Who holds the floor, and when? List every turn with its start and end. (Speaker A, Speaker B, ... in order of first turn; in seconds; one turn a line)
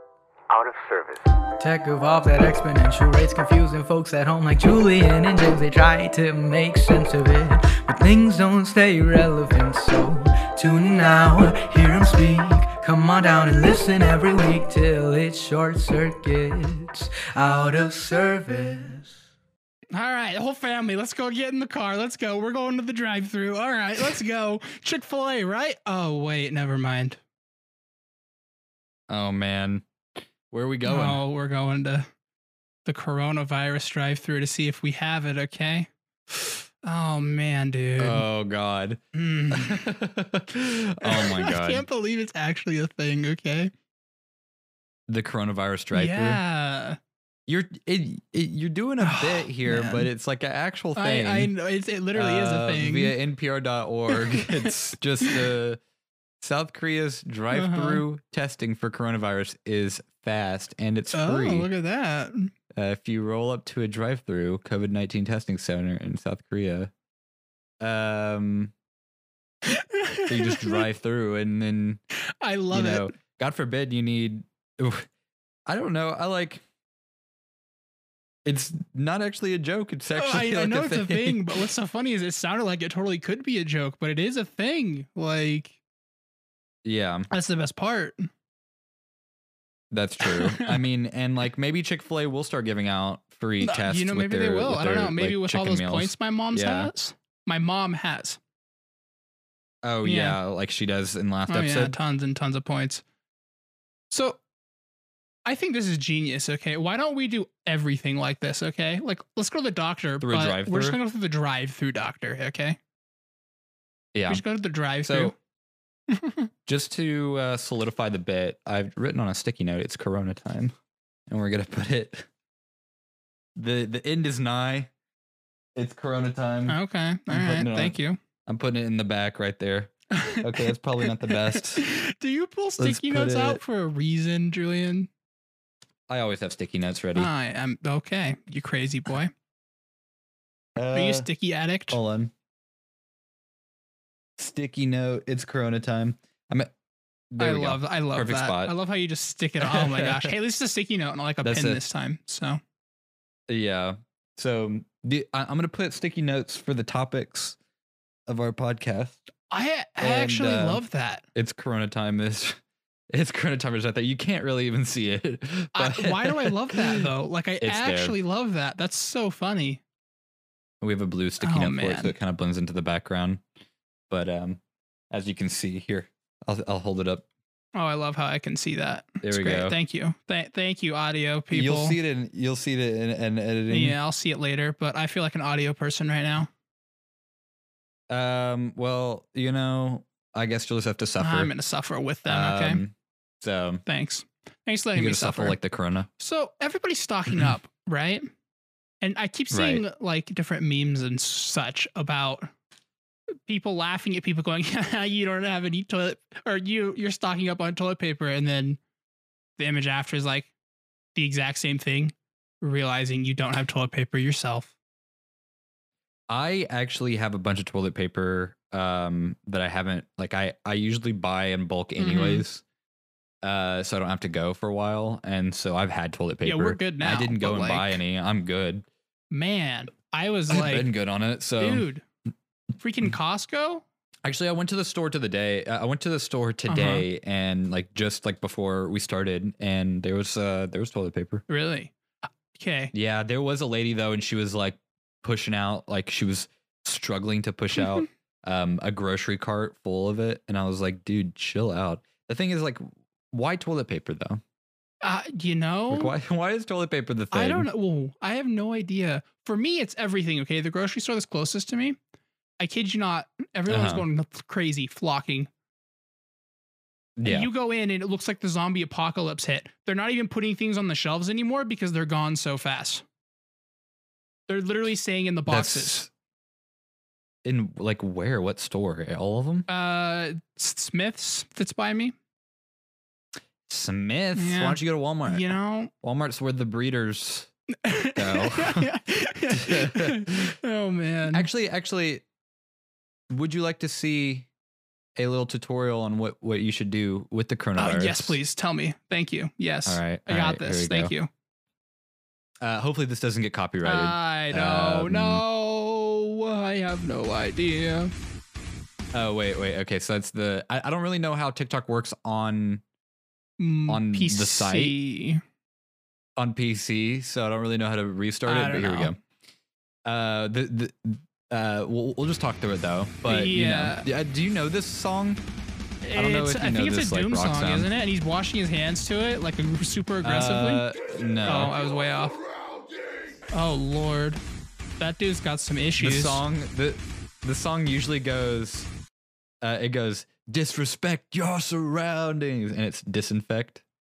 Speaker A: 0.5-19.1
Speaker B: 19.9-27.2
Speaker C: 29.1-29.9
Speaker C: 30.5-31.2
Speaker B: 30.9-32.1
Speaker B: 32.9-38.2
Speaker C: 38.0-41.9
Speaker B: 39.1-39.9
Speaker B: 41.0-43.7
Speaker C: 45.1-46.4
Speaker B: 45.9-47.0
Speaker C: 47.5-51.5
Speaker B: 49.0-50.1
Speaker B: 51.0-53.1
Speaker C: 52.1-55.8
Speaker B: 54.1-54.7
Speaker C: 56.4-61.7
Speaker B: 57.5-58.0
Speaker B: 61.1-62.5
Speaker C: 62.7-66.9
Speaker C: 67.8-68.7
Speaker B: 69.7-70.9
Speaker C: 70.3-72.0
Speaker B: 72.4-73.1
Speaker C: 72.7-75.1
Speaker C: 75.7-76.6
Speaker C: 78.5-81.6
Speaker B: 80.2-85.8
Speaker C: 86.8-87.3
Speaker B: 87.3-88.3
Speaker C: 89.9-96.9
Speaker B: 90.2-90.8
Speaker B: 93.6-98.4
Speaker C: 99.8-102.0
Speaker B: 100.0-100.4
Speaker B: 101.5-103.0
Speaker B: 104.1-104.4
Speaker B: 105.5-112.8
Speaker C: 110.2-111.0
Speaker C: 114.1-114.4
Speaker B: 114.3-115.3
Speaker C: 115.0-115.3
Speaker B: 116.1-116.5
Speaker C: 116.7-120.8
Speaker C: 121.3-122.3
Speaker C: 123.6-124.9
Speaker C: 125.8-126.8
Speaker B: 126.7-128.2
Speaker C: 127.3-128.0
Speaker C: 128.5-131.8
Speaker B: 130.1-135.1
Speaker C: 132.8-133.6
Speaker C: 136.1-137.3
Speaker B: 137.2-139.3
Speaker C: 140.8-141.3
Speaker B: 140.9-142.0
Speaker C: 141.9-142.3
Speaker C: 144.4-146.7
Speaker C: 147.3-148.7
Speaker B: 147.4-152.6
Speaker C: 149.6-150.3
Speaker C: 151.4-151.8
Speaker C: 153.5-157.6
Speaker C: 158.3-159.2
Speaker B: 159.5-161.2
Speaker C: 160.0-160.8
Speaker C: 161.3-167.1
Speaker B: 165.8-169.8
Speaker C: 167.6-168.2
Speaker C: 170.8-173.4
Speaker B: 171.4-172.1
Speaker C: 174.1-174.6
Speaker C: 175.1-177.3
Speaker B: 177.8-182.0
Speaker C: 179.2-179.8
Speaker C: 181.5-184.0
Speaker B: 183.7-186.5
Speaker C: 188.1-191.5
Speaker B: 191.2-192.8
Speaker C: 192.2-193.8
Speaker B: 193.9-195.6
Speaker C: 195.0-196.1
Speaker B: 196.2-198.3
Speaker B: 199.0-202.5
Speaker C: 199.5-199.8
Speaker B: 203.5-208.8
Speaker B: 209.6-210.5
Speaker B: 211.2-214.7
Speaker C: 216.3-222.6
Speaker B: 222.0-222.4
Speaker C: 223.4-228.9
Speaker B: 226.4-228.0
Speaker B: 229.3-230.9
Speaker C: 230.5-231.9
Speaker B: 231.6-232.0
Speaker B: 232.8-233.8
Speaker C: 234.2-241.4
Speaker B: 236.7-237.1
Speaker B: 241.5-241.9
Speaker B: 242.5-242.9
Speaker C: 242.9-254.4
Speaker B: 255.0-256.1
Speaker C: 255.9-257.7
Speaker B: 257.3-262.0
Speaker B: 262.6-265.5
Speaker C: 263.7-264.1
Speaker C: 267.2-267.5
Speaker B: 267.2-273.1
Speaker B: 274.5-276.0
Speaker C: 275.5-276.1
Speaker C: 277.4-279.7
Speaker B: 279.7-282.1
Speaker C: 283.7-287.5
Speaker B: 284.4-285.9
Speaker B: 287.8-291.5
Speaker C: 288.1-288.9
Speaker C: 289.5-290.6
Speaker C: 291.3-292.2
Speaker C: 293.3-294.5
Speaker C: 295.2-298.4
Speaker B: 297.8-301.3
Speaker C: 299.9-301.1
Speaker C: 302.6-305.4
Speaker B: 303.8-308.1
Speaker C: 309.1-312.8
Speaker B: 313.6-315.4
Speaker C: 313.9-314.9
Speaker C: 316.4-319.2
Speaker B: 318.5-319.2
Speaker C: 320.1-325.4
Speaker B: 323.3-324.1
Speaker B: 326.0-330.9
Speaker C: 326.1-327.9
Speaker C: 330.2-331.7
Speaker B: 331.4-332.4
Speaker B: 333.5-334.4
Speaker B: 335.0-336.4
Speaker C: 336.0-338.9
Speaker C: 339.6-343.8